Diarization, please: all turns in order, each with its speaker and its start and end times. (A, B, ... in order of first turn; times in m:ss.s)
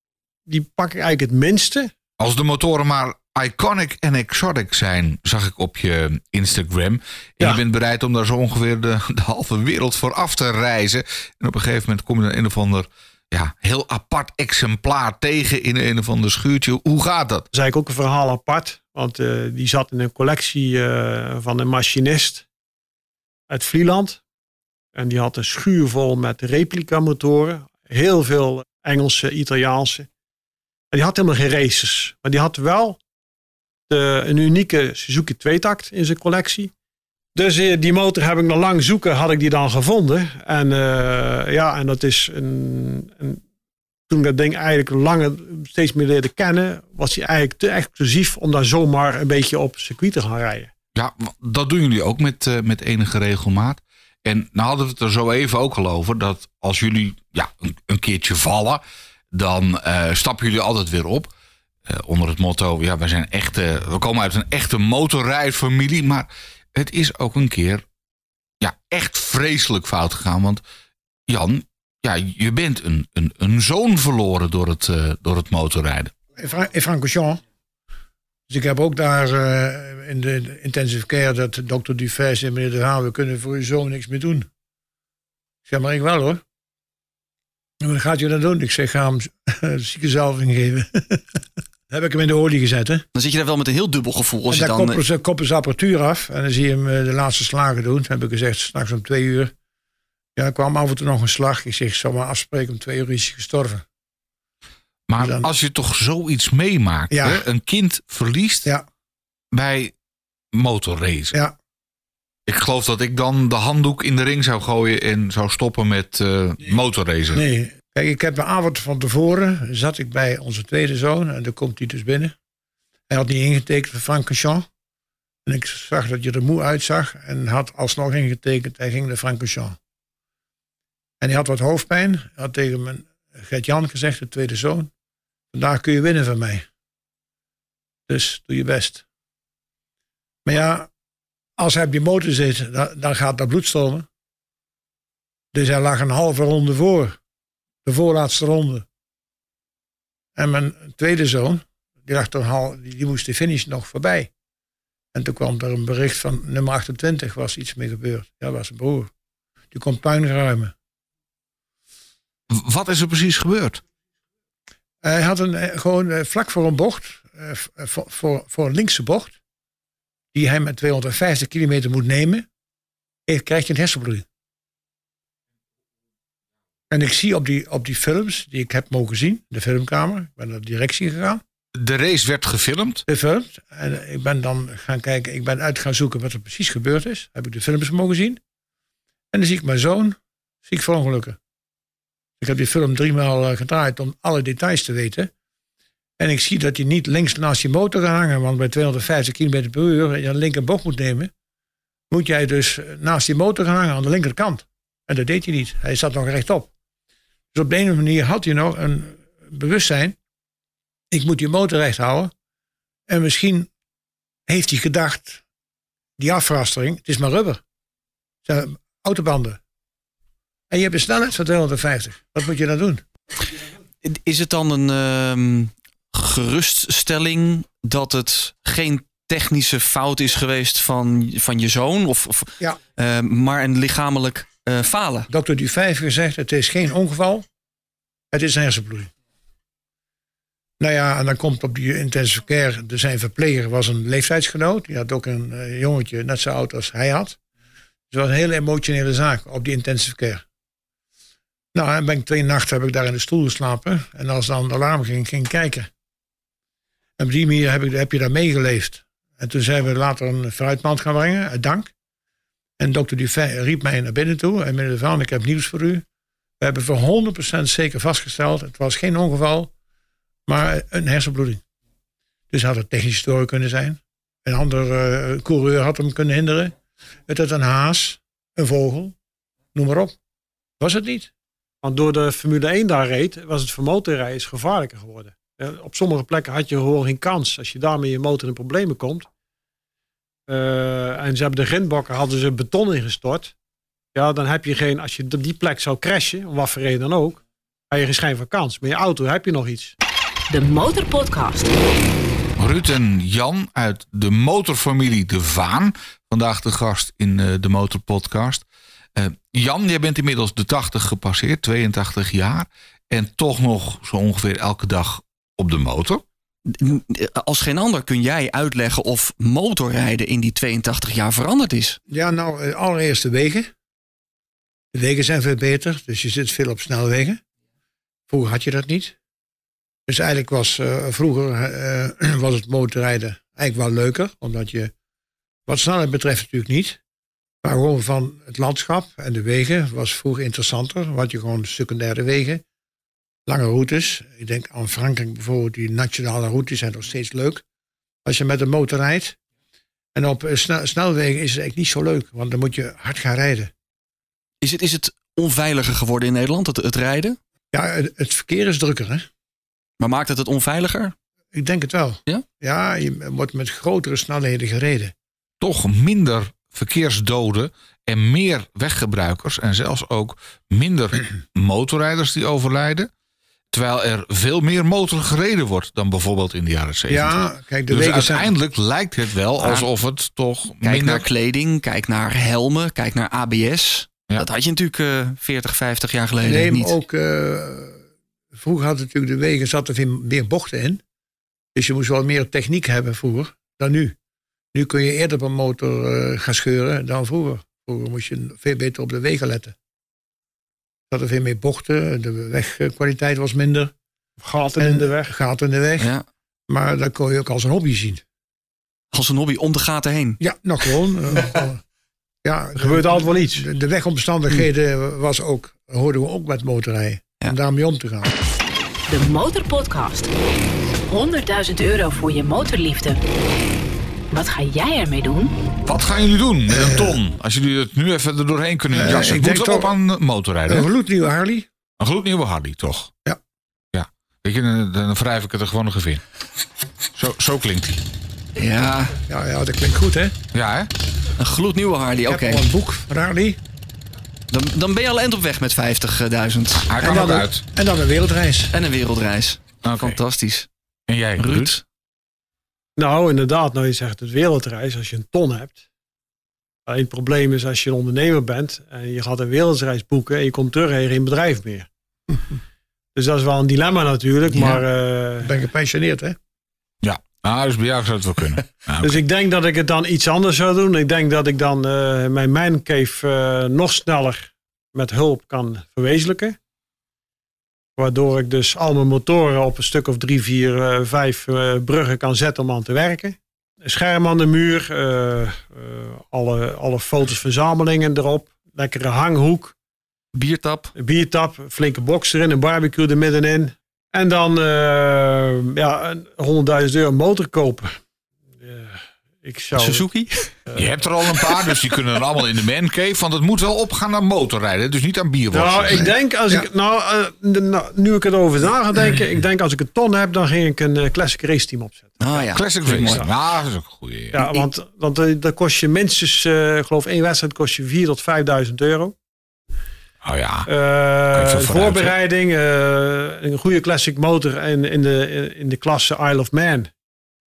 0:00.5-0:01.9 A
0:02.2-0:17.4 B
0:17.5-0:22.4 A
0:23.5-0:24.2 A
0:24.9-0:30.1 A
0:30.9-0:33.0 A
0:33.9-0:36.7 A
0:37.3-0:43.4 A
0:44.1-0:50.7 A
0:51.0-1:01.3 B
1:01.9-1:07.8 B
1:08.6-1:10.6 B
1:11.3-1:16.1 B
1:16.4-1:17.4 C
1:18.5-1:24.5 C
1:25.6-1:26.4 C
1:27.8-1:33.0 C
1:33.1-1:35.0 D
1:34.5-1:39.5 C
1:40.4-1:43.8 C
1:45.1-1:48.7 B
1:45.2-1:45.5 C
1:47.1-1:47.4 C
1:49.5-1:49.9 B
1:50.5-1:51.3 B
1:52.5-1:57.4 B
1:57.3-2:02.3 C
2:03.1-2:04.7 C
2:05.4-2:09.8 C
2:11.2-2:14.9 C
2:15.5-2:16.6 C
2:18.1-2:19.0 C
2:20.4-2:20.9 C
2:21.6-2:24.1 C
2:25.5-2:27.2 C
2:27.8-2:28.8 C
2:30.4-2:34.3 C
2:35.1-2:39.1 C
2:39.7-2:40.7 C
2:42.5-2:43.8 B
2:45.0-2:49.4 C
2:50.3-2:52.4 C
2:53.3-2:54.2 C
2:56.9-3:01.4 C
3:01.8-3:03.0 B
3:03.1-3:08.4 C
3:09.3-3:11.4 C
3:12.4-3:15.3 C
3:16.2-3:21.3 C
3:22.1-3:26.7 C
3:27.5-3:30.2 C
3:31.1-3:32.3 C
3:33.1-3:33.7 C
3:34.5-3:35.4 C
3:36.2-3:37.6 C
3:38.4-3:39.6 C
3:40.7-3:43.0 C
3:44.0-3:55.3 D
3:55.3-3:57.4 C
3:58.3-3:59.1 C
4:00.8-4:07.4 C
4:08.1-4:10.4 C
4:11.7-4:15.9 C
4:17.2-4:21.9 C
4:22.8-4:26.0 C
4:26.6-4:29.7 C
4:30.5-4:31.6 C
4:32.5-4:36.7 C
4:37.3-4:39.2 C
4:39.7-4:40.2 C
4:40.8-4:41.3 C
4:41.8-4:49.3 A
4:50.5-4:53.5 A
4:54.1-5:00.0 A
5:00.5-5:01.7 E
5:02.6-5:16.2 B
5:16.6-5:22.0 D
5:22.1-5:23.7 C
5:24.9-5:27.4 C
5:28.3-5:29.2 C
5:30.1-5:34.9 C
5:35.7-5:37.0 C
5:37.6-5:42.6 C
5:43.4-5:47.6 C
5:48.2-5:49.4 C
5:50.1-5:53.7 C
5:54.6-5:57.4 D
5:57.7-5:59.3 C
6:00.0-6:01.1 D
6:01.5-6:05.1 C
6:05.6-6:13.1 B
6:13.7-6:21.3 B
6:17.1-6:18.5 C
6:19.6-6:19.9 D
6:20.8-6:26.9 D
6:26.4-6:28.0 C
6:28.5-6:31.0 C
6:31.7-6:34.2 C
6:34.7-6:39.8 C
6:41.1-6:43.9 C
6:44.4-6:45.3 A
6:44.8-6:46.1 C
6:46.0-6:46.2 D
6:46.7-6:48.2 C
6:49.1-6:50.4 D
6:50.4-6:51.8 C
6:52.4-6:58.3 C
6:52.8-6:53.7 A
6:59.1-7:00.3 E
7:01.0-7:03.2 E
7:04.3-7:05.5 E
7:05.8-7:10.9 B
7:06.7-7:07.2 C
7:08.9-7:09.9 C
7:10.7-7:11.7 C
7:12.0-7:13.1 B
7:13.9-7:16.2 B
7:17.1-7:18.0 B
7:18.6-7:19.2 D
7:19.3-7:20.4 C
7:20.5-7:20.9 B
7:21.4-7:22.6 D
7:22.2-7:23.6 C
7:24.5-7:26.9 D
7:26.8-7:27.6 B
7:27.0-7:28.7 C
7:28.7-7:30.7 D
7:29.8-7:30.2 B
7:31.1-7:31.8 B
7:31.4-7:31.8 D
7:33.0-7:35.8 A
7:36.8-7:41.9 A
7:43.1-7:45.6 A
7:45.4-7:46.4 C
7:47.0-7:49.2 B
7:49.0-7:56.6 A
7:58.0-8:09.7 A
8:10.3-8:10.9 D
8:11.0-8:17.9 A
8:18.6-8:20.1 A
8:19.7-8:20.5 D
8:20.7-8:26.1 B
8:25.5-8:33.2 A
8:25.9-8:26.6 C
8:32.2-8:33.3 D
8:32.5-8:34.5 B
8:34.3-8:39.1 A
8:40.2-8:40.7 B
8:40.6-8:46.9 A
8:41.3-8:42.1 B